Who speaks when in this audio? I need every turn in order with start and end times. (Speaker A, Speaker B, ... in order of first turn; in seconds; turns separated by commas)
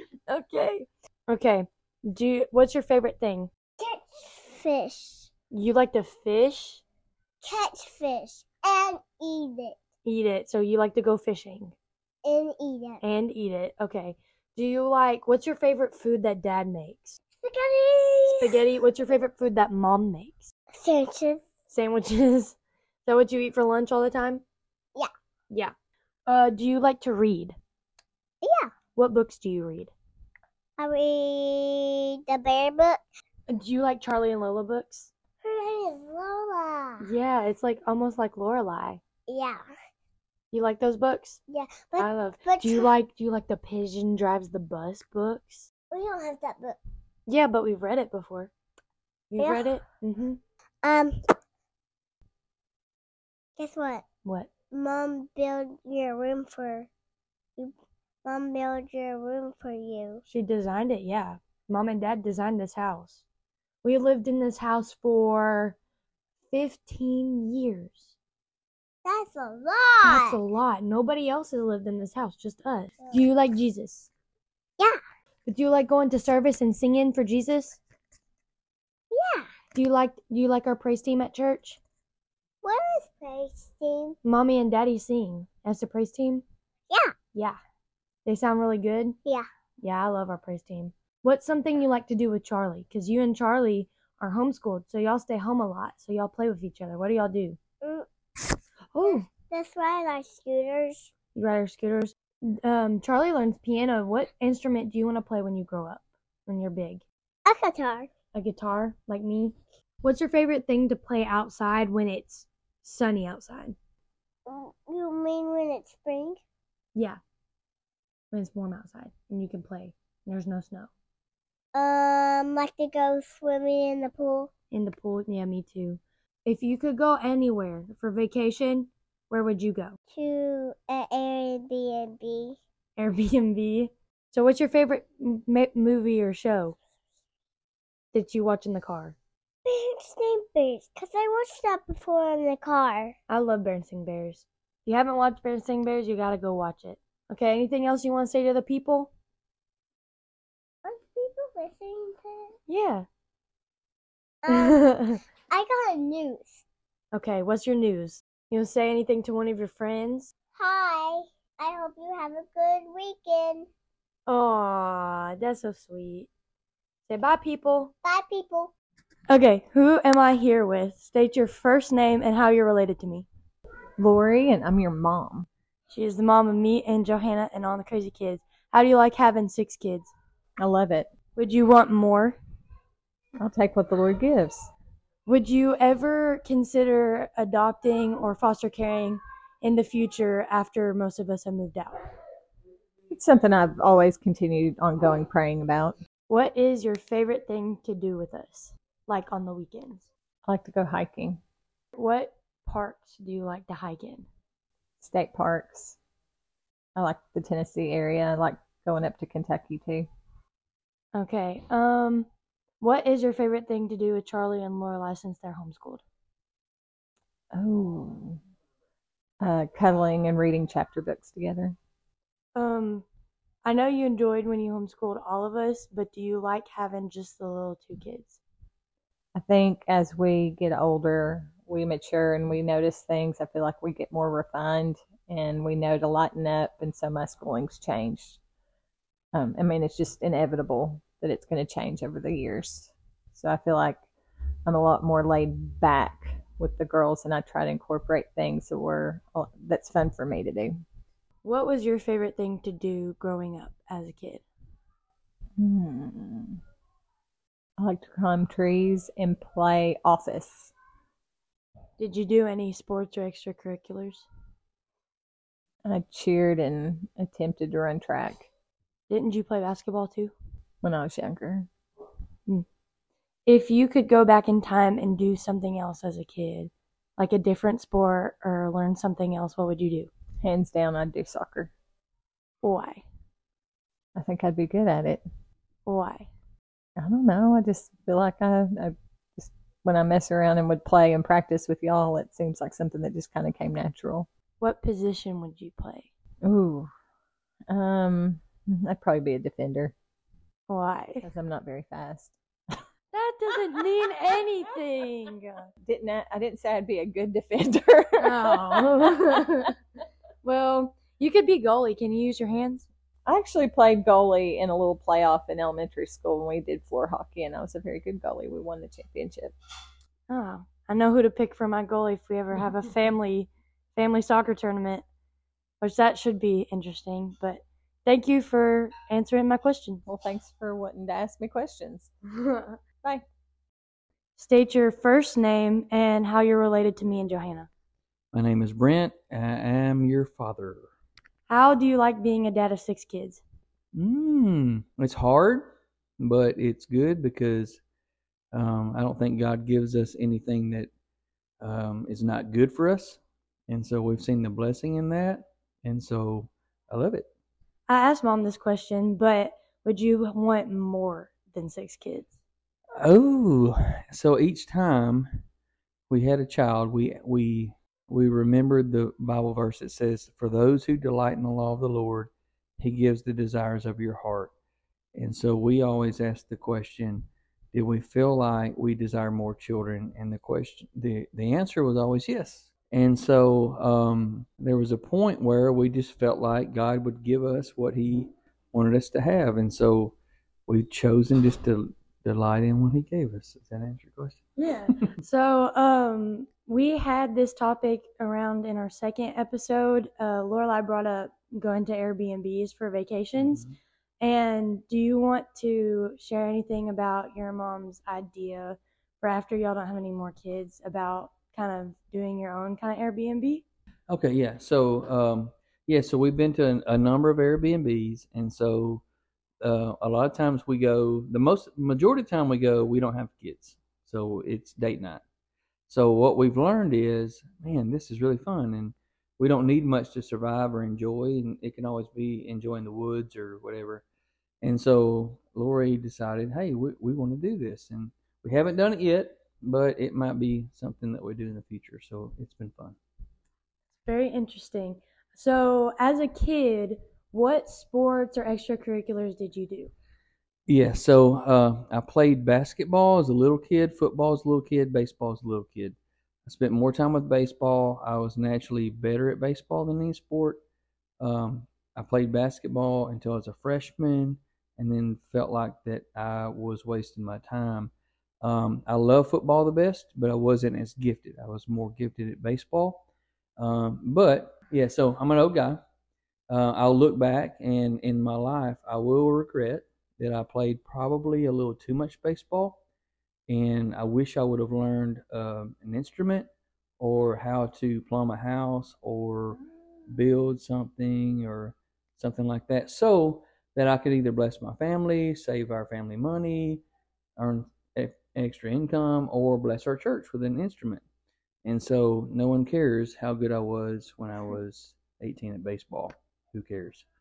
Speaker A: 0.3-3.5, Speaker B: 3.8-5.3, Speaker A: 5.5-6.8, Speaker B: 7.4-9.8, Speaker A: 10.1-11.8, Speaker B: 12.2-13.0, Speaker A: 13.0-17.2, Speaker B: 17.4-18.6, Speaker A: 18.4-20.5, Speaker B: 20.8-21.4, Speaker A: 21.7-24.4, Speaker A: 26.3-27.6, Speaker B: 28.4-28.7, Speaker A: 28.9-29.9, Speaker B: 30.8-33.0, Speaker A: 33.5-35.1, Speaker B: 35.4-37.1, Speaker A: 37.0-39.0, Speaker B: 39.3-39.6, Speaker A: 40.5-41.4, Speaker B: 41.5-42.9, Speaker A: 42.0-45.7, Speaker B: 45.9-46.8, Speaker A: 47.3-48.5, Speaker A: 49.3-50.4, Speaker B: 49.4-49.7, Speaker B: 50.8-51.2, Speaker B: 53.6-54.0, Speaker A: 54.2-54.5, Speaker B: 54.7-56.9, Speaker B: 57.6-60.2, Speaker A: 60.3-63.2, Speaker A: 63.8-65.8, Speaker A: 66.5-68.1, Speaker B: 69.0-70.4, Speaker A: 70.0-74.1, Speaker A: 75.5-77.8, Speaker B: 79.1-79.5, Speaker A: 79.7-81.8, Speaker B: 82.6-84.2, Speaker A: 84.2-86.4, Speaker A: 87.3-87.6, Speaker A: 88.2-89.2, Speaker A: 89.8-97.6, Speaker A: 98.9-99.3, Speaker B: 99.0-101.1, Speaker A: 101.3-107.0, Speaker B: 107.5-108.1, Speaker A: 108.3-113.8, Speaker B: 114.5-116.4, Speaker A: 118.3-120.9, Speaker B: 121.7-124.5, Speaker A: 124.7-130.0, Speaker B: 130.1-132.6, Speaker A: 133.0-136.8, Speaker A: 138.1-139.2, Speaker B: 139.7-143.2, Speaker A: 143.3-149.1, Speaker B: 150.8-152.6, Speaker A: 152.7-153.1, Speaker B: 154.4-154.8, Speaker A: 154.5-155.2, Speaker B: 155.5-156.6, Speaker A: 157.1-160.3, Speaker B: 160.6-163.7, Speaker A: 164.3-166.3, Speaker A: 167.1-167.9, Speaker B: 168.0-168.7, Speaker A: 169.3-173.3, Speaker C: 174.0-175.5, Speaker A: 175.9-180.1, Speaker C: 180.6-181.1, Speaker A: 181.4-182.4, Speaker C: 183.4-184.7, Speaker A: 185.3-192.0, Speaker C: 193.1-196.0, Speaker A: 196.3-200.1, Speaker C: 200.5-201.4, Speaker A: 202.0-204.3, Speaker C: 205.0-206.0, Speaker C: 207.0-210.1, Speaker A: 211.1-212.3, Speaker A: 212.8-216.0, Speaker C: 217.5-218.4, Speaker C: 219.4-221.8, Speaker A: 222.6-223.1, Speaker A: 223.6-228.4, Speaker C: 229.3-238.4, Speaker C: 239.3-244.0, Speaker C: 244.7-250.7, Speaker A: 251.4-254.4, Speaker C: 255.6-256.6, Speaker C: 257.8-260.7, Speaker A: 262.0-264.3, Speaker C: 265.9-268.5, Speaker A: 269.1-270.3, Speaker C: 270.8-271.7, Speaker A: 273.5-280.1, Speaker C: 280.4-281.7, Speaker A: 282.6-283.1, Speaker C: 284.2-285.2, Speaker A: 285.9-286.3, Speaker C: 287.0-294.3, Speaker A: 294.6-296.1, Speaker C: 296.4-296.9, Speaker C: 297.7-299.9, Speaker A: 300.7-301.3, Speaker C: 301.2-302.8, Speaker A: 303.1-305.7, Speaker C: 305.8-309.2, Speaker A: 308.2-309.7, Speaker A: 310.4-312.9, Speaker C: 313.3-319.5, Speaker A: 320.3-325.1, Speaker A: 325.8-330.0, Speaker C: 330.1-332.1, Speaker A: 332.4-332.8, Speaker A: 334.4-337.7, Speaker D: 338.3-340.9, Speaker A: 341.5-343.4, Speaker D: 343.9-347.8, Speaker D: 348.5-350.9, Speaker D: 351.6-357.3, Speaker A: 357.9-362.3, Speaker D: 363.0-365.3, Speaker D: 366.1-374.5, Speaker D: 375.1-390.1, Speaker D: 390.7-394.4, Speaker A: 394.6-403.6, Speaker D: 403.4-403.7, Speaker A: 404.2-413.6, Speaker D: 414.1-419.0, Speaker D: 419.6-425.2, Speaker D: 425.9-434.0, Speaker D: 434.6-443.0, Speaker A: 444.1-449.9, Speaker D: 450.7-460.6, Speaker D: 461.2-473.1, Speaker D: 473.6-475.8, Speaker D: 476.5-482.8, Speaker D: 483.5-486.5, Speaker D: 487.0-496.8, Speaker D: 497.4-501.0, Speaker D: 501.6-507.1